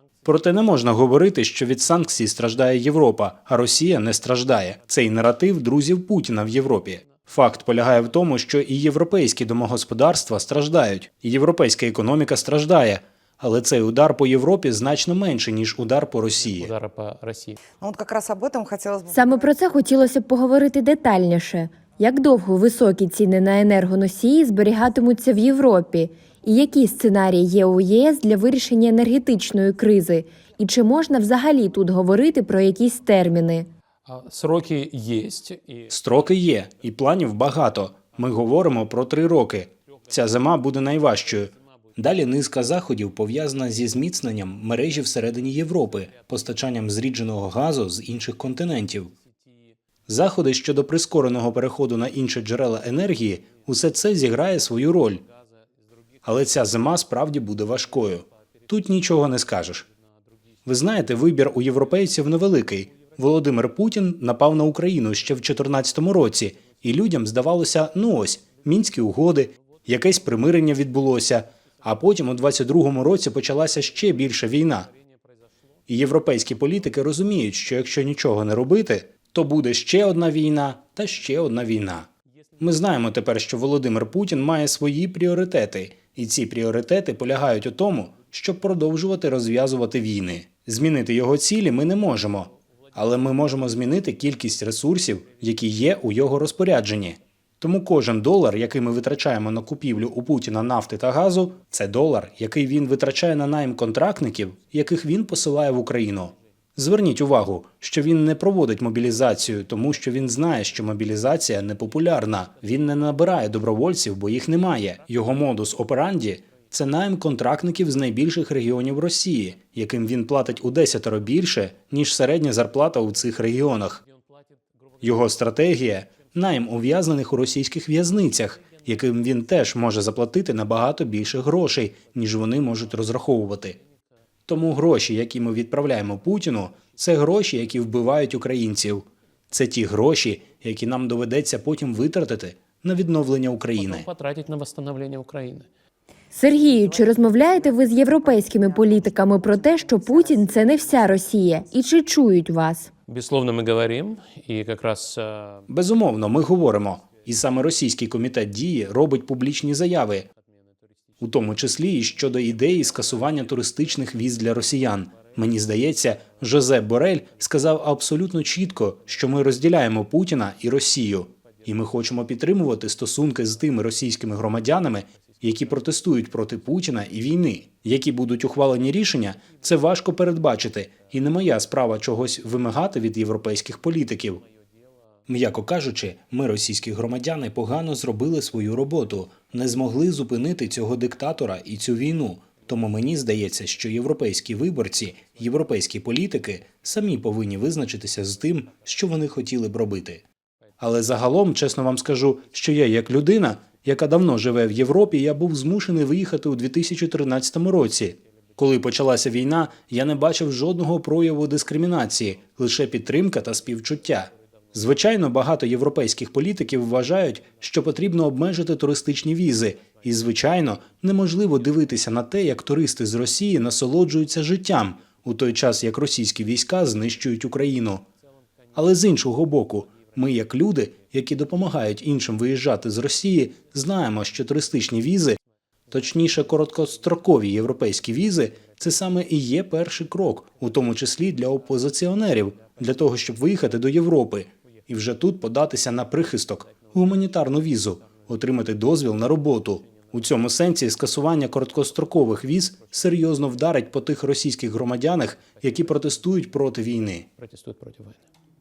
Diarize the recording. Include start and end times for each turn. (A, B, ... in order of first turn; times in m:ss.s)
0:00.2-0:16.7 A
0:16.5-0:17.6 B
0:17.8-0:19.5 C
0:19.1-0:33.7 D
0:34.0-0:35.9 B
0:35.9-0:49.1 A
0:50.1-0:55.2 A
0:56.2-0:59.8 A
1:00.6-1:14.9 A
1:15.9-1:22.1 A
1:22.6-2:04.0 A
2:05.0-2:13.8 A
2:14.5-2:24.1 A
2:23.8-2:25.7 B
2:26.3-2:32.9 D
2:26.5-2:31.2 C
2:33.1-2:35.6 B
2:35.7-2:40.3 A
2:41.2-3:04.4 A
3:05.3-3:20.2 A
3:20.8-3:48.0 A
3:48.7-3:55.4 A
3:55.9-4:17.3 A
4:17.4-4:18.2 B